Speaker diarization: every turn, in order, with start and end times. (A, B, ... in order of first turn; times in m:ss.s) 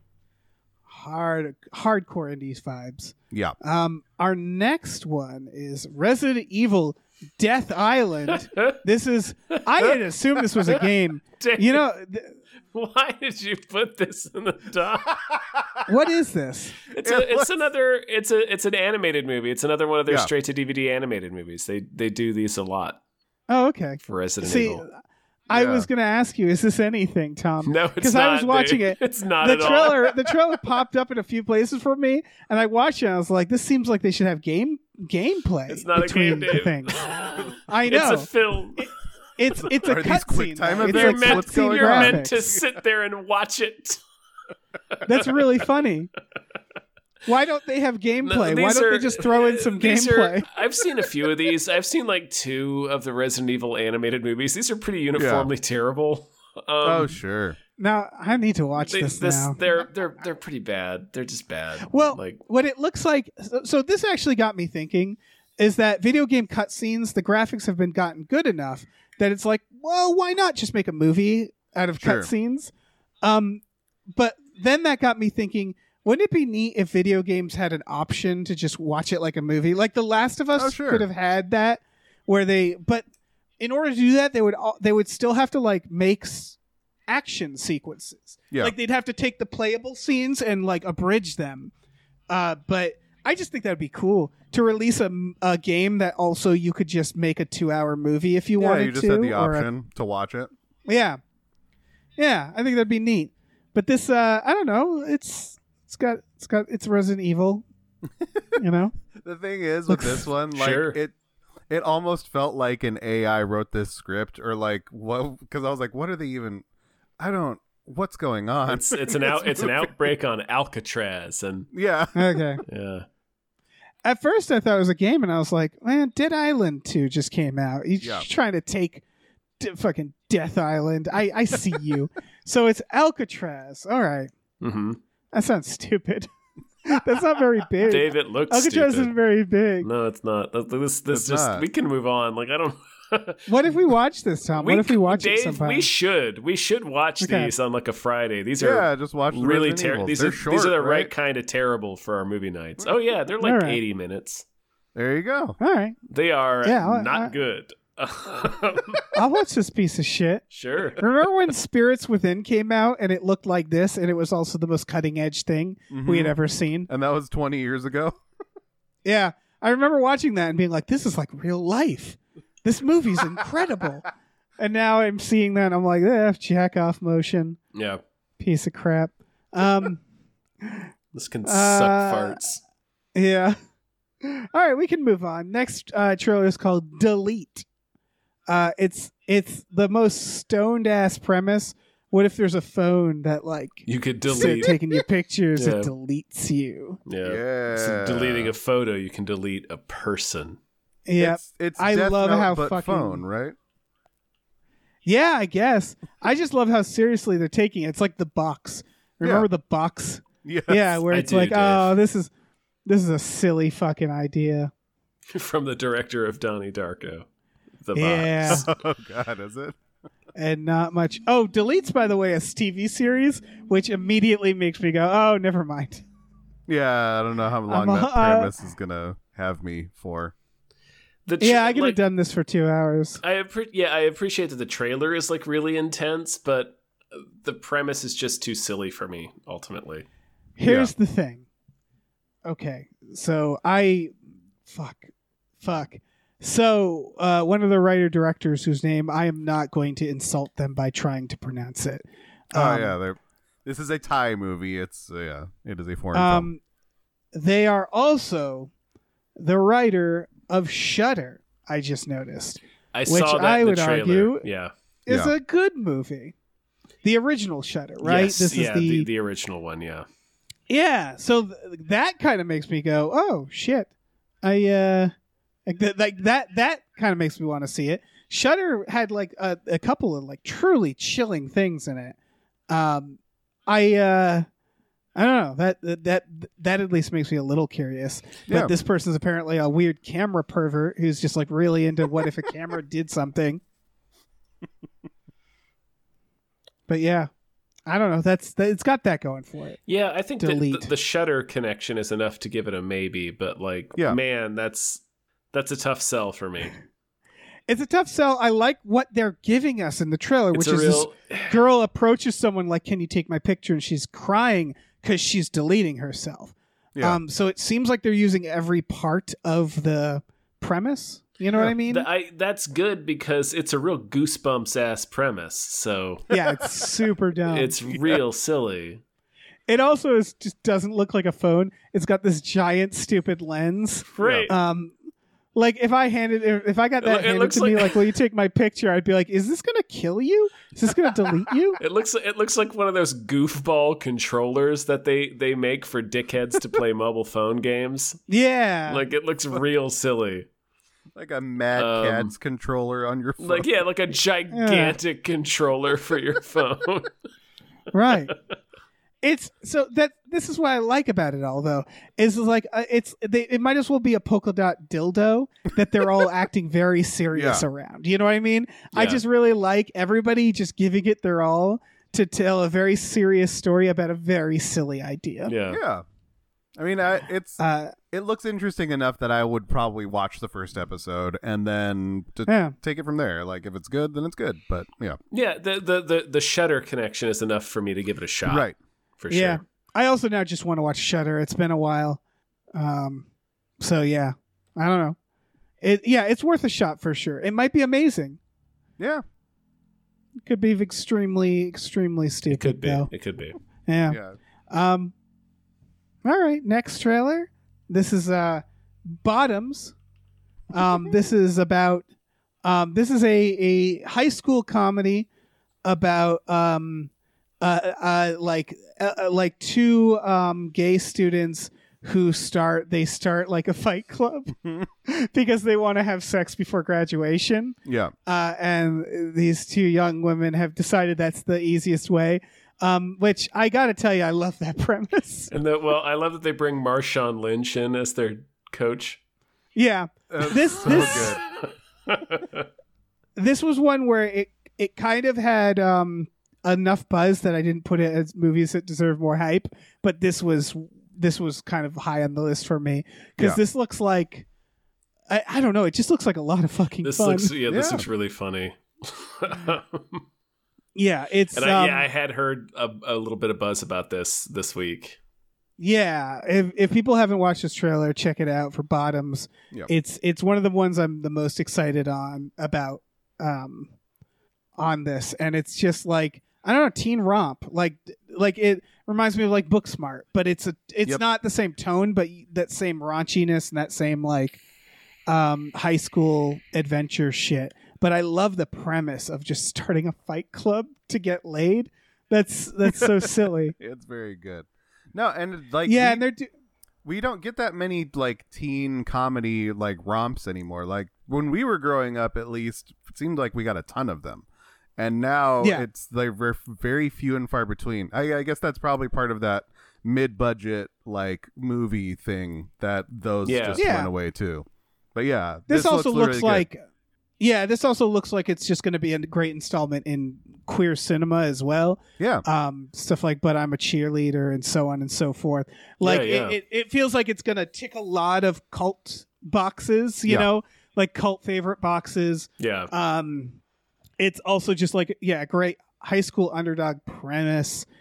0:00.9-0:12.4 A
0:03.3-0:03.6 B
0:11.4-0:11.8 C
0:12.7-0:15.2 C
0:15.9-0:16.8 A
0:16.9-0:23.0 C
0:17.0-0:17.5 B
0:23.5-0:25.0 A
0:24.0-0:24.8 C
0:25.5-0:37.0 A
0:25.5-0:25.9 B
0:27.6-0:30.1 C
0:35.7-0:38.9 C
0:37.6-0:42.3 A
0:39.7-0:42.6 B
0:40.8-0:44.0 C
0:45.0-0:46.1 A
0:45.2-0:45.4 C
0:47.2-0:50.5 A
0:48.2-0:57.2 C
0:55.2-0:55.5 B
0:56.8-0:57.6 B
0:57.8-0:59.6 A
0:58.8-1:02.4 C
1:01.9-1:12.7 A
1:12.0-1:12.3 B
1:13.2-1:23.0 A
1:20.6-1:21.0 B
1:23.6-1:26.6 A
1:27.1-1:31.7 A
1:32.3-1:39.7 A
1:38.6-1:40.5 B
1:40.8-1:41.2 A
1:42.2-1:47.6 A
1:48.6-1:48.9 A
1:49.1-1:51.1 B
1:49.9-1:50.2 A
1:50.5-1:51.0 C
1:51.7-1:56.6 B
1:57.2-1:59.9 B
1:58.7-2:01.7 C
2:01.7-2:02.4 B
2:02.1-2:02.6 A
2:02.7-2:03.0 C
2:04.0-2:09.0 A
2:09.6-2:14.3 A
2:14.6-2:15.0 C
2:15.3-2:16.3 A
2:16.8-2:19.9 A
2:17.8-2:19.1 C
2:19.8-2:23.5 C
2:21.1-2:21.6 B
2:23.5-2:25.9 A
2:24.6-2:34.4 C
2:27.2-2:27.5 A
2:28.6-2:31.1 B
2:33.4-2:33.8 A
2:34.9-2:35.6 B
2:35.6-2:36.0 A
2:36.1-2:39.0 C
2:36.6-2:37.3 A
2:39.1-2:40.4 A
2:40.5-2:41.0 C
2:41.0-2:46.9 A
2:45.9-2:46.3 B
2:46.9-2:48.2 B
2:49.0-2:54.0 A
2:54.6-2:57.6 A
2:57.7-2:58.0 C
2:58.4-3:00.0 A
3:01.1-3:02.6 C
3:01.4-3:02.4 A
3:03.1-3:03.6 A
3:04.2-3:07.6 A
3:08.5-3:17.0 A
3:13.9-3:14.8 C
3:15.6-3:15.9 C
3:17.1-3:20.6 C
3:17.2-3:18.5 B
3:21.1-3:23.2 A
3:21.2-3:23.6 B
3:25.0-3:32.3 A
3:29.2-3:29.5 B
3:30.4-3:31.0 B
3:31.1-3:32.0 C
3:32.8-3:34.7 A
3:35.3-3:37.2 C
3:37.8-3:38.7 C
3:37.9-3:38.7 A
3:38.5-3:39.8 B
3:40.4-3:46.0 A
3:46.7-3:50.3 B
3:47.7-3:48.5 A
3:51.2-3:52.0 C
3:51.4-3:53.2 A
3:53.2-4:00.0 C
4:00.6-4:01.4 A
4:02.4-4:04.1 A
4:04.6-4:12.9 A
4:12.5-4:16.5 B
4:16.1-4:16.6 A
4:17.3-4:18.7 A
4:19.4-4:24.4 A
4:22.9-4:24.7 C
4:25.0-4:26.3 A
4:27.0-4:29.1 A
4:28.0-4:30.0 C
4:30.7-4:33.9 A
4:34.4-4:35.1 A
4:35.6-4:42.2 A
4:42.7-4:44.4 A
4:45.1-4:53.6 A
4:56.9-4:57.3 A
4:57.9-4:59.8 A
4:59.9-5:05.0 C
5:00.4-5:00.9 A
5:05.5-5:06.7 C
5:07.7-5:22.1 A
5:10.5-5:11.6 C
5:21.8-5:26.3 C
5:26.3-5:27.8 A
5:27.5-5:29.0 C
5:27.9-5:28.2 B
5:29.7-5:34.9 A
5:34.1-5:34.5 C
5:34.2-5:34.5 B
5:35.5-5:41.8 A
5:37.0-5:38.1 C
5:41.8-5:48.2 C
5:48.3-5:49.0 A
5:48.9-5:50.5 C
5:51.1-5:53.7 B
5:51.8-5:52.3 C
5:53.4-5:57.1 C
5:54.5-5:55.0 A
5:57.9-5:58.3 A
5:59.2-6:15.5 A
6:07.3-6:07.6 B
6:08.9-6:09.2 C
6:15.4-6:15.8 C
6:15.7-6:16.0 B
6:16.8-6:17.6 B
6:17.6-6:17.9 A
6:18.1-6:25.2 B
6:22.5-6:22.7 A
6:25.3-6:28.7 C
6:28.4-6:28.7 B
6:29.2-6:29.6 C
6:29.3-6:32.2 A
6:32.7-6:33.2 A
6:33.8-6:35.2 A
6:35.8-6:38.4 A
6:39.0-6:39.2 B
6:40.4-6:43.1 A
6:42.5-6:43.6 C
6:43.9-6:44.2 A
6:44.1-6:44.4 B
6:44.7-6:45.1 A
6:46.2-6:49.9 A
6:50.7-6:52.0 A
6:52.6-6:55.3 A
6:55.8-7:15.5 A
7:07.8-7:08.1 B
7:15.5-7:19.2 C
7:19.8-7:21.4 A
7:20.3-7:21.4 B
7:20.9-7:21.5 C
7:22.1-7:22.6 C
7:23.4-7:34.4 A
7:35.3-7:37.5 A
7:37.0-7:40.2 C
7:37.7-7:38.1 B
7:40.9-7:42.1 A
7:41.5-7:45.2 C
7:45.8-7:53.9 A
7:54.8-8:04.6 A
8:05.3-8:13.8 A
8:13.8-8:16.2 B
8:15.8-8:16.5 A
8:17.0-8:24.4 B
8:25.0-8:36.6 B
8:33.4-8:33.8 C
8:33.8-8:34.1 A
8:35.7-8:36.8 A
8:37.4-8:53.6 A
8:42.2-8:42.4 B
8:46.0-8:46.6 C
8:52.6-8:52.9 C
8:54.2-8:57.9 A